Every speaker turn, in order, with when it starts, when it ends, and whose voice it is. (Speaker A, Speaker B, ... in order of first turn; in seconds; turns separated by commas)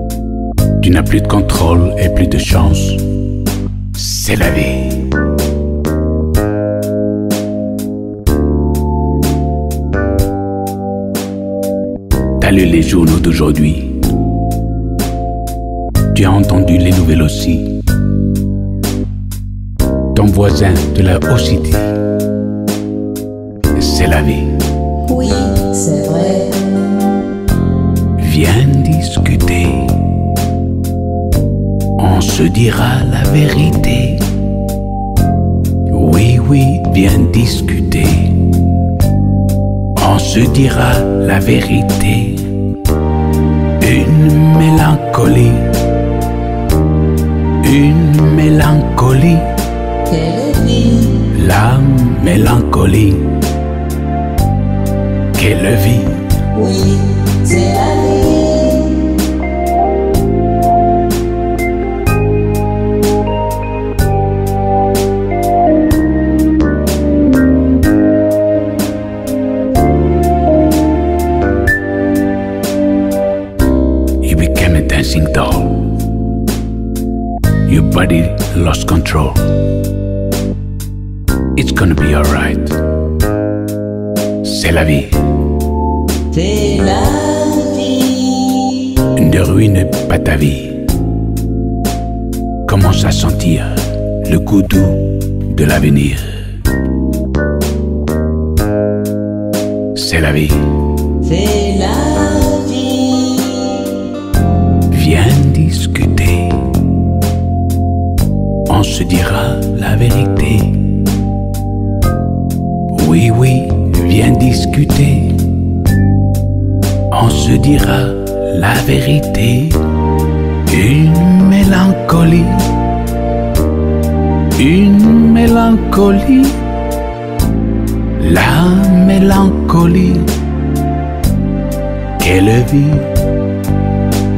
Speaker A: 0.8-3.2, Speaker A: 3.9-5.2, Speaker A: 12.4-14.1, Speaker A: 16.1-17.9, Speaker A: 20.1-22.0, Speaker A: 23.8-24.6, Speaker B: 25.1-27.2, Speaker A: 28.2-30.1, Speaker A: 32.0-34.4, Speaker A: 35.9-38.5, Speaker A: 40.0-42.6, Speaker A: 43.8-45.8, Speaker A: 47.6-49.6, Speaker B: 50.0-51.3, Speaker A: 51.2-53.4, Speaker A: 55.3-56.4, Speaker B: 56.5-59.3, Speaker A: 74.2-75.9, Speaker A: 77.6-79.6, Speaker A: 81.5-82.9, Speaker A: 84.4-85.4, Speaker B: 86.3-89.1, Speaker A: 89.1-91.0, Speaker A: 92.7-96.6, Speaker A: 99.9-100.9, Speaker B: 101.2-104.1, Speaker A: 104.8-106.8, Speaker A: 108.7-111.0, Speaker A: 112.9-115.6, Speaker A: 117.1-120.0, Speaker A: 120.6-122.9, Speaker A: 124.5-126.7, Speaker A: 128.2-130.4, Speaker A: 132.2-133.2